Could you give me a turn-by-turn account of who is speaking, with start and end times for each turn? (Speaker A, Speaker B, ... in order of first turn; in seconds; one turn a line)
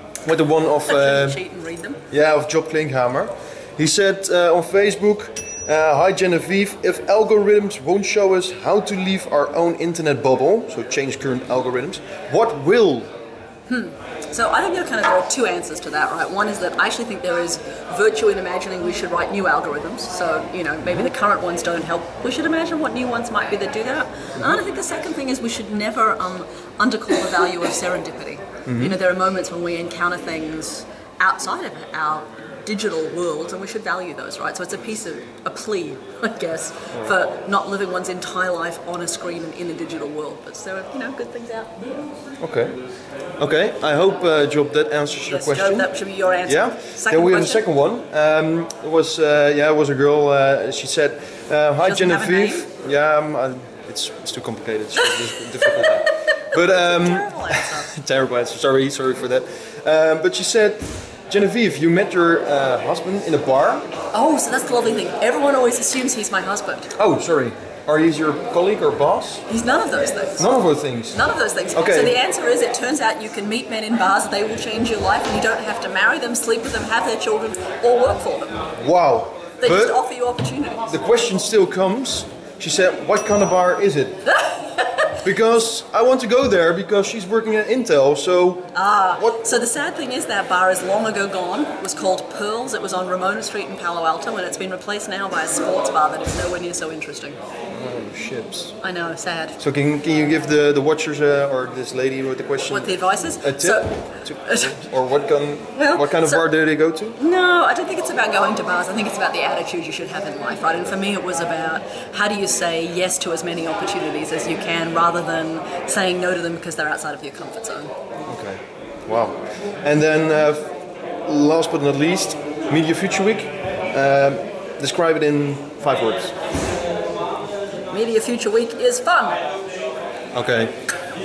Speaker A: 0.3-1.4
Speaker B: 0.9-2.0
Speaker A: 2.1-13.1
Speaker B: 13.7-41.8
Speaker A: 28.7-29.0
Speaker A: 42.4-42.8
Speaker A: 43.4-45.9
Speaker B: 45.3-47.6
Speaker A: 46.5-63.9
Speaker B: 51.8-52.7
Speaker B: 56.5-57.9
Speaker B: 64.1-66.9
Speaker A: 67.0-69.4
Speaker B: 69.5-70.5
Speaker A: 70.4-71.2
Speaker B: 71.1-78.6
Speaker A: 71.8-72.2
Speaker A: 78.8-80.0
Speaker B: 79.6-81.0
Speaker A: 80.9-84.2
Speaker B: 84.3-85.2
Speaker A: 85.2-89.7
Speaker B: 88.7-97.4
Speaker A: 97.7-98.8
Speaker B: 98.8-99.6
Speaker A: 99.6-107.2
Speaker B: 102.7-104.8
Speaker B: 105.8-106.5
Speaker B: 107.2-117.9
Speaker A: 118.3-126.3
Speaker B: 127.9-129.4
Speaker A: 130.3-130.7